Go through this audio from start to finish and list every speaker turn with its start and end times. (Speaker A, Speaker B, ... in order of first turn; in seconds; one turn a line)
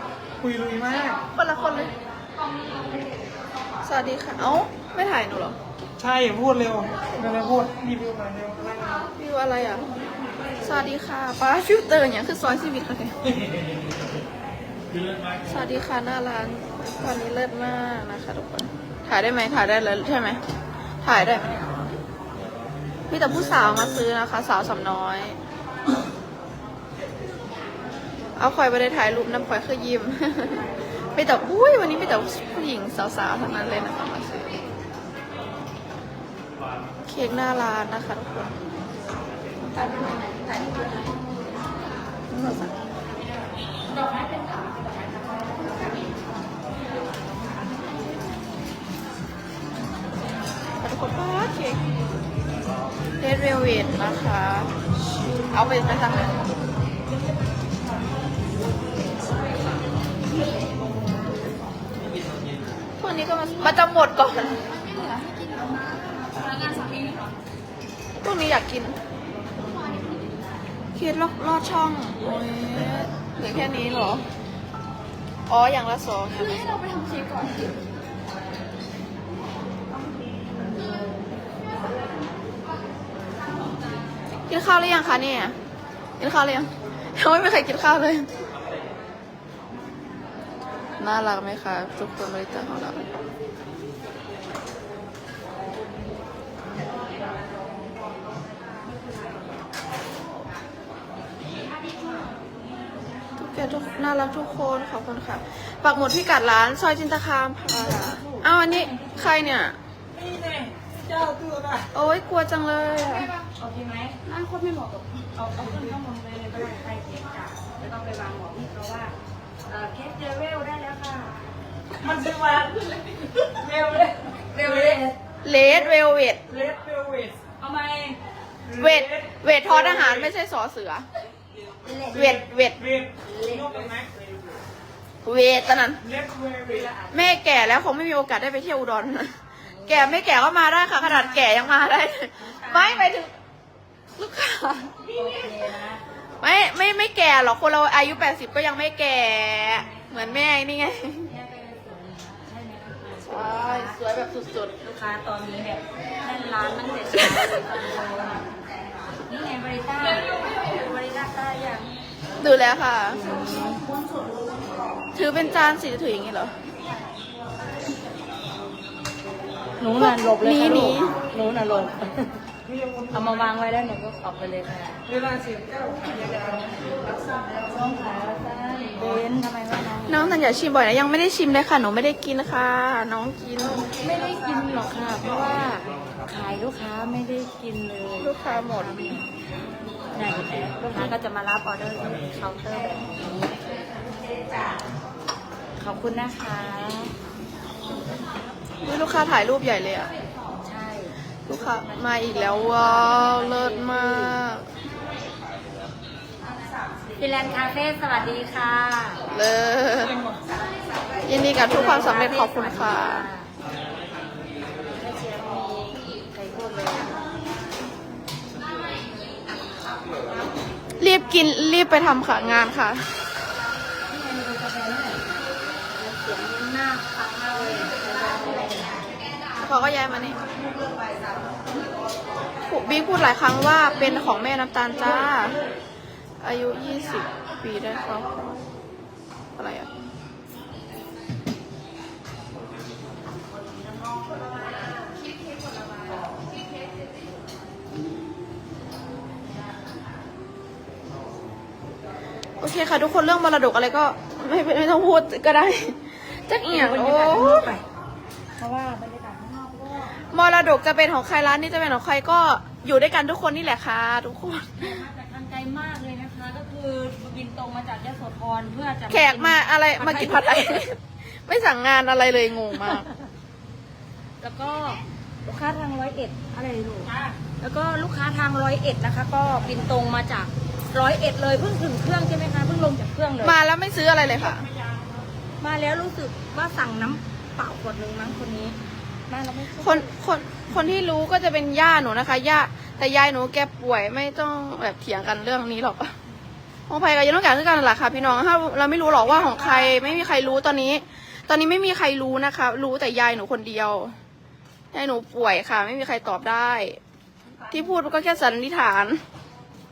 Speaker A: 0.4-1.2
Speaker B: 1.3-1.9
Speaker B: 3.9-5.6
Speaker A: 6.0-9.1
Speaker B: 9.1-9.9
Speaker B: 10.6-13.2
Speaker B: 15.5-20.4
Speaker B: 21.0-21.8
Speaker B: 23.1-25.4
Speaker B: 28.4-34.6
Speaker B: 37.1-38.6
Speaker B: 42.3-42.7
Speaker B: 50.8-51.8
Speaker B: 53.2-54.7
Speaker B: 55.5-56.4
Speaker B: 63.0-64.6
Speaker B: 68.2-69.0
Speaker B: 71.0-74.2
Speaker B: 75.5-76.9
Speaker B: 84.5-85.6
Speaker B: 86.2-88.3
Speaker B: 91.0-93.1
Speaker B: 103.4-109.8
Speaker C: 107.7-109.5
Speaker A: 110.1-111.9
Speaker B: 111.9-113.3
Speaker C: 113.5-114.3
Speaker B: 114.4-115.0
Speaker C: 115.3-119.1
Speaker C: 119.7-121.5
Speaker A: 122.0-125.1
Speaker C: 124.4-125.1
Speaker B: 125.4-126.4
Speaker A: 126.5-127.4
Speaker C: 127.6-128.2
Speaker A: 128.7-130.3
Speaker B: 128.8-131.1
Speaker C: 131.8-132.4
Speaker B: 132.1-132.8
Speaker A: 132.1-134.5
Speaker C: 133.2-133.8
Speaker B: 135.2-136.0
Speaker A: 136.0-136.9
Speaker B: 137.1-143.3
Speaker C: 139.6-140.2
Speaker C: 140.9-141.7
Speaker C: 142.4-143.2
Speaker B: 144.2-145.0
Speaker C: 145.1-146.0
Speaker B: 146.4-151.3
Speaker C: 150.1-150.5
Speaker C: 151.2-154.0
Speaker B: 153.2-154.8
Speaker C: 154.8-158.5
Speaker C: 159.3-161.9
Speaker B: 162.4-163.2
Speaker C: 163.1-163.9
Speaker B: 165.2-166.6
Speaker C: 169.8-172.3
Speaker B: 170.0-171.2
Speaker A: 172.7-173.5
Speaker C: 173.1-175.0
Speaker A: 175.1-176.8
Speaker C: 177.3-180.4
Speaker B: 180.1-183.9
Speaker C: 183.9-189.3
Speaker B: 188.2-188.9
Speaker C: 190.1-193.6
Speaker C: 195.8-197.1
Speaker B: 198.8-200.1
Speaker C: 200.6-204.4
Speaker B: 201.5-204.7
Speaker C: 207.2-209.2
Speaker B: 209.3-210.2
Speaker B: 211.3-213.3
Speaker C: 211.5-213.5
Speaker C: 214.9-217.2
Speaker B: 221.0-223.1
Speaker C: 224.1-225.3
Speaker C: 225.9-229.0
Speaker B: 229.6-230.4
Speaker B: 232.7-235.6
Speaker B: 236.4-238.7
Speaker B: 239.6-239.9
Speaker B: 252.6-257.7
Speaker C: 256.6-257.8
Speaker C: 258.6-260.2
Speaker B: 260.2-265.0
Speaker C: 264.8-270.9
Speaker B: 269.1-273.1
Speaker C: 274.4-283.6
Speaker B: 283.4-284.7
Speaker A: 284.4-285.2
Speaker C: 285.6-290.1
Speaker B: 289.8-296.1
Speaker B: 296.9-304.2
Speaker C: 299.5-300.0
Speaker B: 304.9-307.0
Speaker B: 307.7-309.2